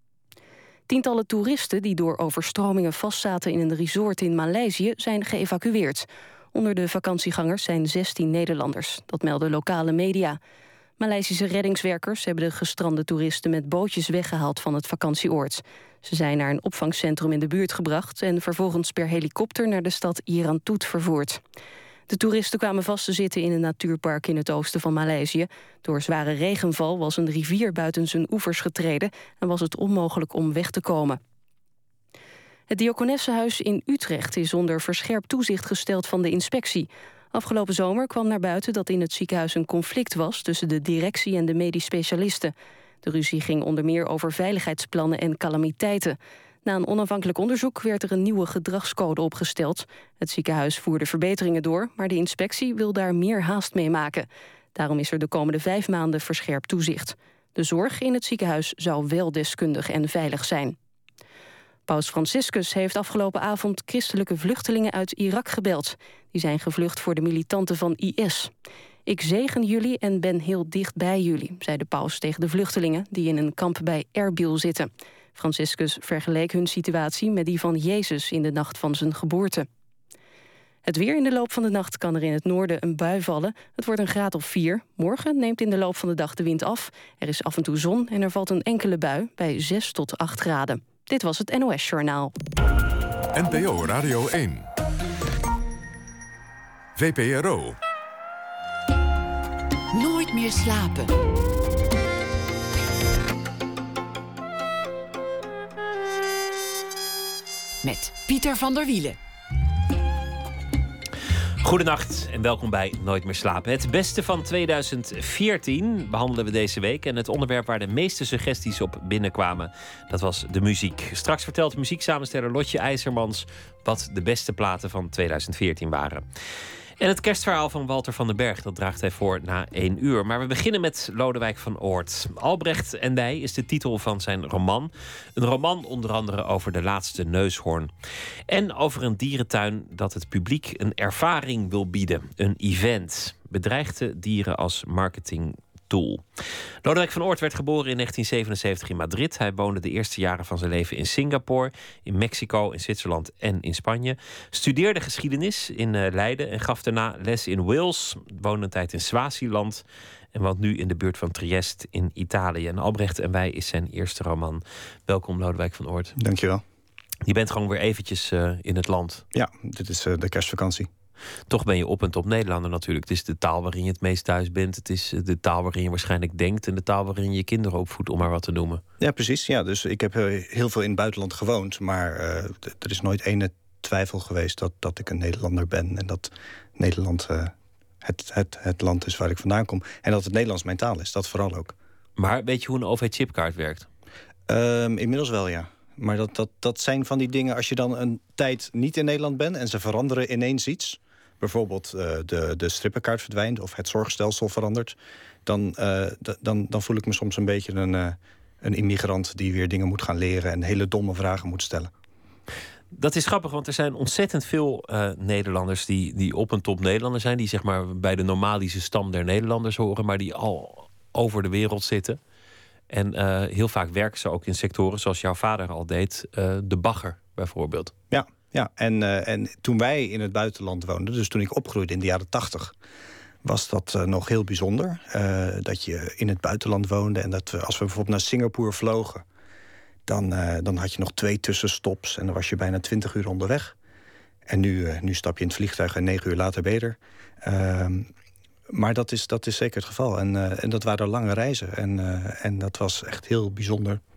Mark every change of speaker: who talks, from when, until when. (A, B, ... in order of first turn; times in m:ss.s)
0:00.9-0:10.4 A
0:11.0-0:21.4 A
0:22.1-0:31.2 A
0:32.7-0:42.5 A
0:43.0-1:00.8 A
1:01.9-1:08.5 A
1:09.1-1:19.7 A
1:20.9-1:32.3 A
1:33.3-1:34.7 B
1:37.0-1:37.8 B
1:39.9-1:41.1 C
1:47.8-1:49.2 C
1:51.6-2:06.2 D
2:07.0-2:17.9 D
2:18.5-2:26.2 D
2:26.8-2:39.8 D
2:40.3-2:46.1 D
2:46.2-2:46.6 E
2:47.2-2:49.2 D
2:49.3-2:50.9 E
2:51.5-2:58.8 D
2:59.0-3:11.8 E
3:12.2-3:13.9 D
3:14.5-3:31.9 E
3:32.9-3:42.2 D
3:42.9-3:47.9 D
3:48.1-3:52.7 E
3:53.4-3:59.2 E
4:00.1-4:03.8 E
4:04.5-4:08.1 E
4:08.7-4:14.0 E